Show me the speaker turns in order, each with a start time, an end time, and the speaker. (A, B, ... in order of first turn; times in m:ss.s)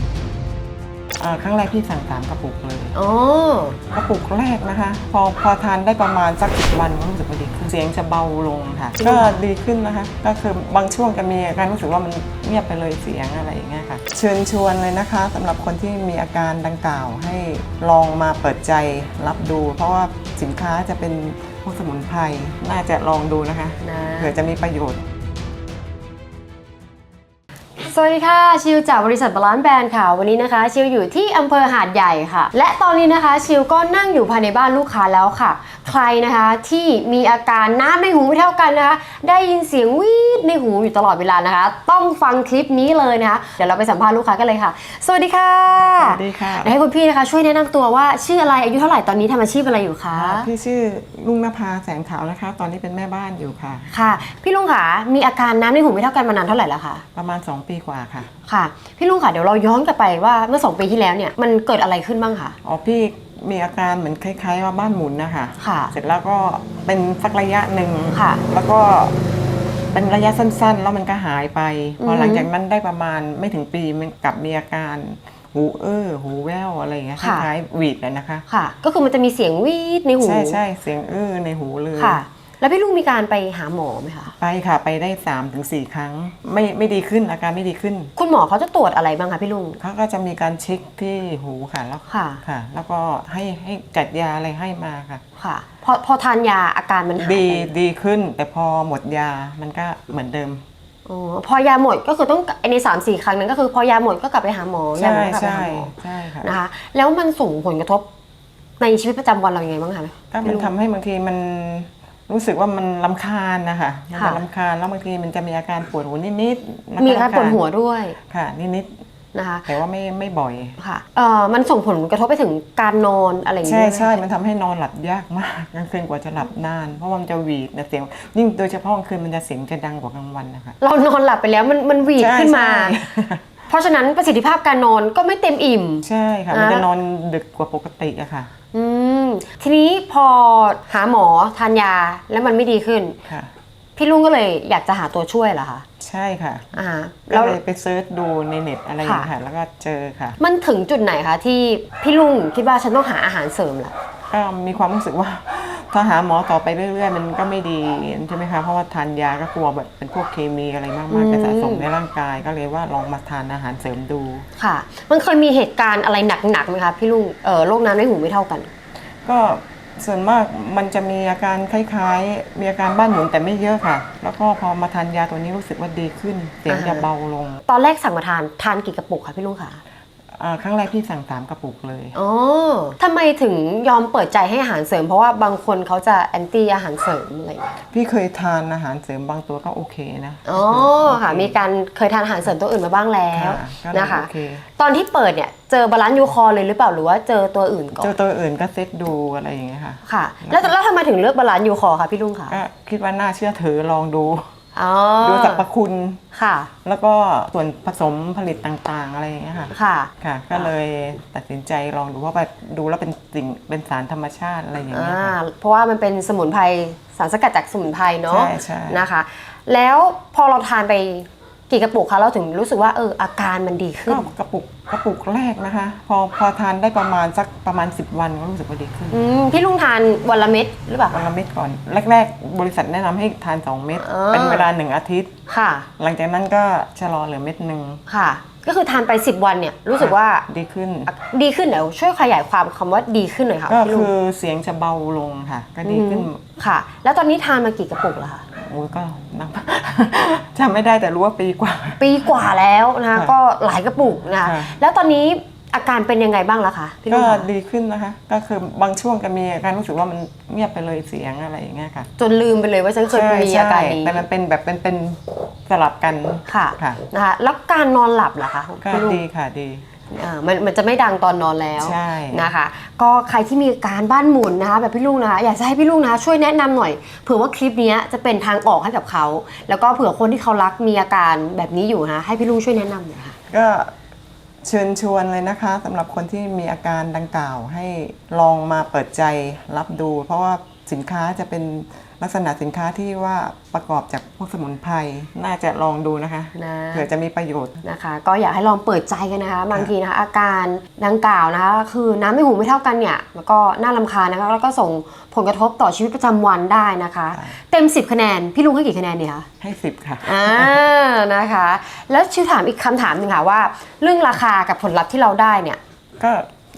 0:01.2-0:03.0 A
0:03.0-0:03.8 B
0:03.9-0:25.0 A
0:09.0-0:09.4 B
0:23.8-0:24.3 B
0:27.8-0:50.5 B
0:45.7-0:46.7 A
0:50.1-0:53.9 A
0:53.9-0:57.0 B
0:57.2-0:58.3 A
0:58.5-1:02.6 B
1:02.6-1:09.2 A
1:05.6-1:05.9 B
1:08.1-1:08.4 B
1:09.9-1:18.4 A
1:12.0-1:12.5 B
1:17.2-1:17.5 B
1:18.5-1:20.6 B
1:20.2-1:22.2 A
1:22.0-1:24.3 B
1:24.4-1:28.1 A
1:28.2-1:29.8 B
1:29.8-1:35.2 A
1:32.1-1:32.4 B
1:35.4-1:37.7 B
1:37.2-1:40.6 A
1:41.1-1:48.1 B
1:45.0-1:46.5 A
1:48.8-1:50.7 B
1:50.3-1:57.6 A
1:54.1-1:54.4 B
1:57.0-1:58.2 B
1:58.2-1:59.0 A
1:59.3-1:59.7 B
1:59.7-2:00.8 A
2:00.8-2:04.2 B
2:03.6-2:10.8 A
2:10.8-2:13.0 B
2:12.2-2:13.5 A
2:13.7-2:16.9 B
2:16.0-2:18.5 A
2:18.7-2:23.2 B
2:24.0-2:25.8 B
2:26.0-2:26.7 A
2:26.7-2:27.6 B
2:27.3-2:30.4 A
2:29.0-2:29.3 B
2:30.4-2:34.0 B
2:34.3-2:44.5 A
2:41.1-2:41.9 B
2:44.6-2:48.7 B
2:49.2-2:57.6 A
2:56.7-2:57.1 B
2:57.7-2:59.8 B
3:00.4-3:02.2 A
3:02.2-3:07.8 B
3:07.9-3:11.6 A
3:10.5-3:18.1 B
3:13.3-3:14.7 A
3:18.0-3:20.7 A
3:20.1-3:22.6 B
3:22.5-3:24.5 A
3:24.8-3:25.6 B
3:25.2-3:26.2 A
3:26.3-3:26.7 B
3:26.8-3:35.4 A
3:29.7-3:30.7 B
3:34.9-3:44.3 B
3:38.3-3:39.0 A
3:44.1-3:49.2 A
3:49.1-3:51.2 B
3:51.1-3:55.4 A
3:54.0-3:54.7 B
3:55.5-3:55.9 B
3:56.0-3:58.0 A
3:58.1-4:00.5 B
4:00.0-4:01.1 A
4:01.1-4:04.1 B
4:03.7-4:06.4 A
4:05.8-4:08.4 B
4:08.6-4:12.3 A
4:12.0-4:17.5 B
4:14.4-4:14.8 A
4:17.1-4:22.1 A
4:22.2-4:24.2 B
4:23.1-4:27.0 A
4:26.5-4:29.2 B
4:28.8-4:29.9 A
4:30.1-4:43.4 B
4:31.8-4:32.5 A
4:43.5-4:43.9 A
4:44.6-4:57.8 A
4:56.6-4:57.1 B
4:57.8-5:09.5 B
5:09.6-5:10.8 A
5:10.2-5:15.8 B
5:16.2-5:16.5 A